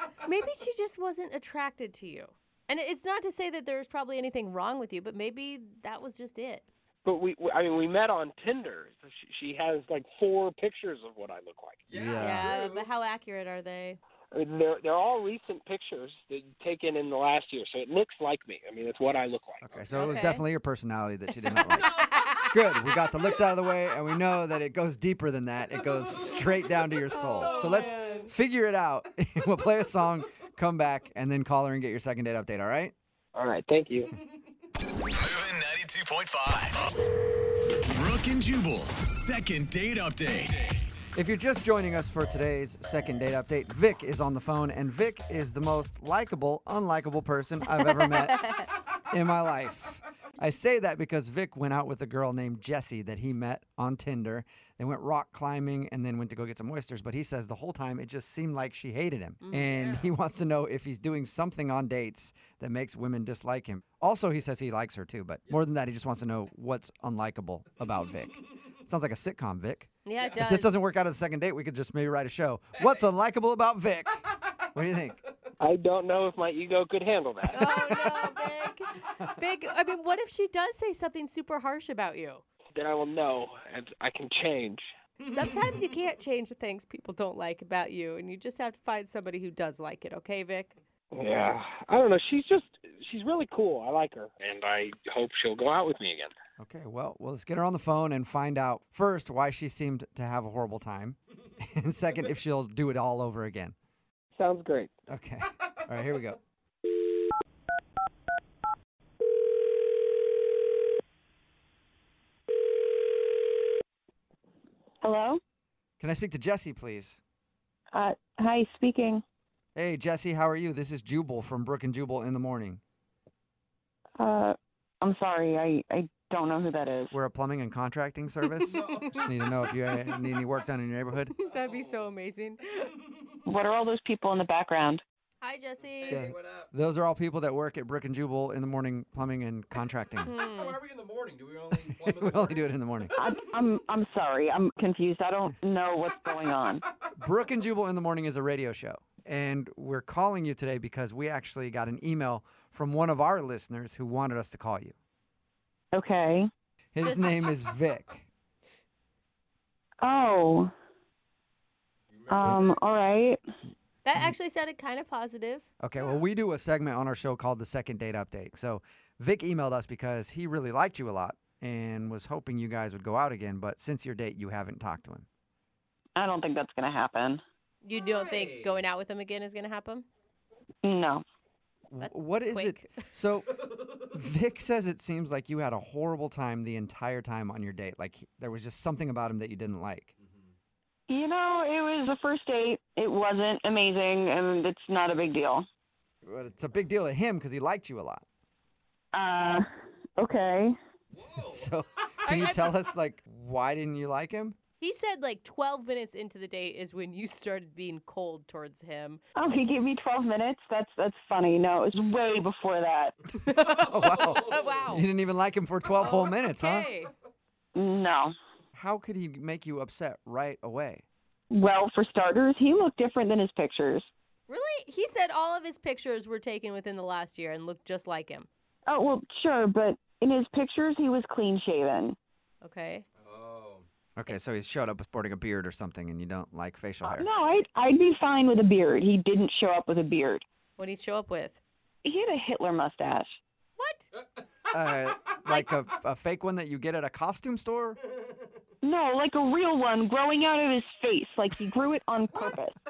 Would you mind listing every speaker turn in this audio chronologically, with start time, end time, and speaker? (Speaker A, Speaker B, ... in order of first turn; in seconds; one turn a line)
Speaker A: 0.2-6.7
Speaker B: 7.0-11.8
Speaker C: 11.9-12.9
Speaker D: 11.9-12.5
Speaker A: 12.2-14.0
Speaker B: 14.3-19.6
Speaker D: 19.6-32.9
Speaker C: 19.7-20.2
Speaker A: 20.0-20.4
Speaker A: 21.6-22.5
Speaker A: 27.1-28.3
Speaker B: 33.3-34.1
Speaker E: 35.1-36.8
Speaker E: 37.9-40.8
Speaker D: 41.1-48.5
Speaker A: 47.8-48.7
Speaker D: 49.1-75.2
Speaker A: 59.4-59.7
Speaker C: 59.7-60.1
Speaker A: 70.0-70.7
Speaker B: 75.6-77.7
Speaker A: 77.5-82.4
Speaker D: 77.6-78.2
Speaker B: 82.8-84.9
Speaker A: 85.2-90.8
Speaker B: 91.1-96.3
Speaker D: 96.6-103.8
Speaker B: 104.4-104.9
Speaker D: 105.1-106.4
Speaker F: 115.0-115.4
Speaker D: 116.0-117.2
Speaker F: 117.9-119.2
Speaker D: 119.8-122.8
Speaker F: 124.2-127.1
Speaker D: 127.1-131.3
Speaker A: 128.7-129.1
Speaker C: 128.7-129.3
Speaker A: 131.3-133.0
Speaker C: 131.5-132.0
Speaker F: 133.5-135.0
Speaker A: 135.4-136.3
Speaker C: 136.0-136.7
Speaker D: 136.1-140.3
Speaker A: 140.2-140.8
Speaker C: 140.4-142.7
Speaker D: 141.9-143.1
Speaker F: 143.2-146.8
Speaker D: 147.2-154.9
Speaker F: 155.9-156.5
Speaker D: 156.9-158.3
Speaker A: 157.0-157.5
Speaker F: 160.0-160.7
Speaker C: 162.1-162.8
Speaker F: 162.3-163.4
Speaker A: 164.0-165.7
Speaker D: 165.8-175.3
Speaker F: 176.2-177.4
Speaker A: 177.8-180.1
Speaker C: 177.9-178.8
Speaker F: 180.8-181.2
Speaker D: 181.9-190.1
Speaker A: 182.0-182.9
Speaker C: 190.2-190.5
Speaker F: 191.1-195.7
Speaker D: 196.2-198.2
Speaker F: 199.1-199.7
Speaker F: 200.2-200.8
Speaker C: 201.1-201.7
Speaker D: 201.4-204.6
Speaker A: 202.2-202.8
Speaker A: 204.8-209.2
Speaker F: 209.4-213.2
Speaker A: 213.4-215.0
Speaker D: 213.6-216.9
Speaker C: 214.2-214.8
Speaker A: 216.0-217.1
Speaker F: 217.8-218.3
Speaker D: 218.8-221.0
Speaker F: 221.5-224.1
Speaker A: 224.5-228.5
Speaker F: 228.9-232.2
Speaker A: 232.6-233.1
Speaker C: 233.2-233.9
Speaker D: 234.2-237.3
Speaker F: 237.1-240.4
Speaker A: 240.8-241.6
Speaker F: 242.0-243.3
Speaker A: 243.8-244.1
Speaker D: 244.7-248.0
Speaker F: 248.8-252.8